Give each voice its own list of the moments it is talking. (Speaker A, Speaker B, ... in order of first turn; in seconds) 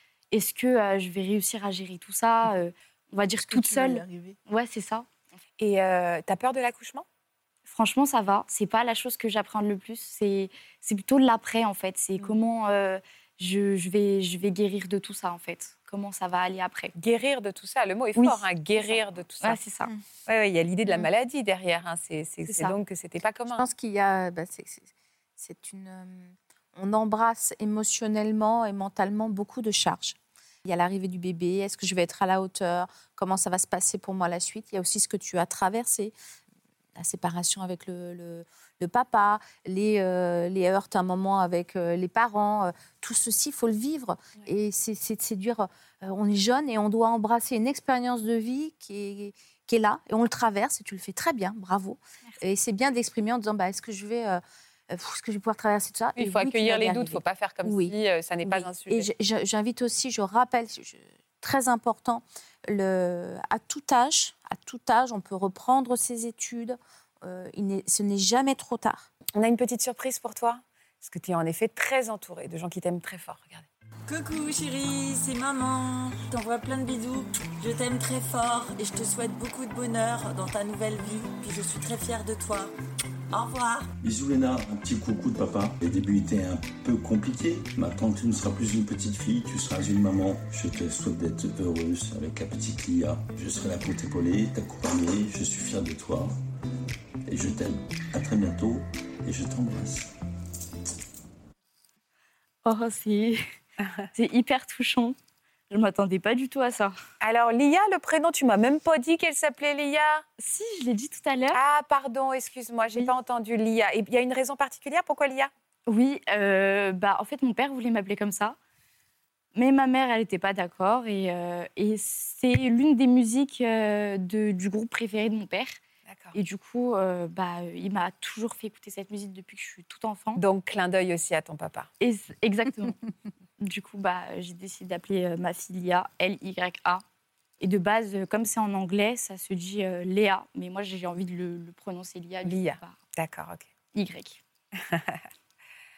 Speaker A: 0.3-5.0, 7.7-16.9, 18.1-19.9, 22.5-22.8, 102.6-103.4, 104.1-105.1, 105.7-106.9, 110.4-111.6, 115.8-118.5, 119.5-125.8, 126.3-130.4, 132.0-133.0, 133.6-137.0, 137.6-142.9, 143.9-144.4
Speaker B: 3.5-4.3, 23.5-36.1, 37.0-69.1
Speaker C: 5.6-7.0, 16.9-19.6, 20.3-23.6, 56.2-59.1, 69.3-73.7, 107.2-110.2, 111.5-115.5, 126.1-126.3, 130.3-131.9, 142.4-143.7, 144.9-145.2
Speaker D: 74.1-82.7, 83.3-83.9
Speaker E: 84.0-96.3, 97.2-100.1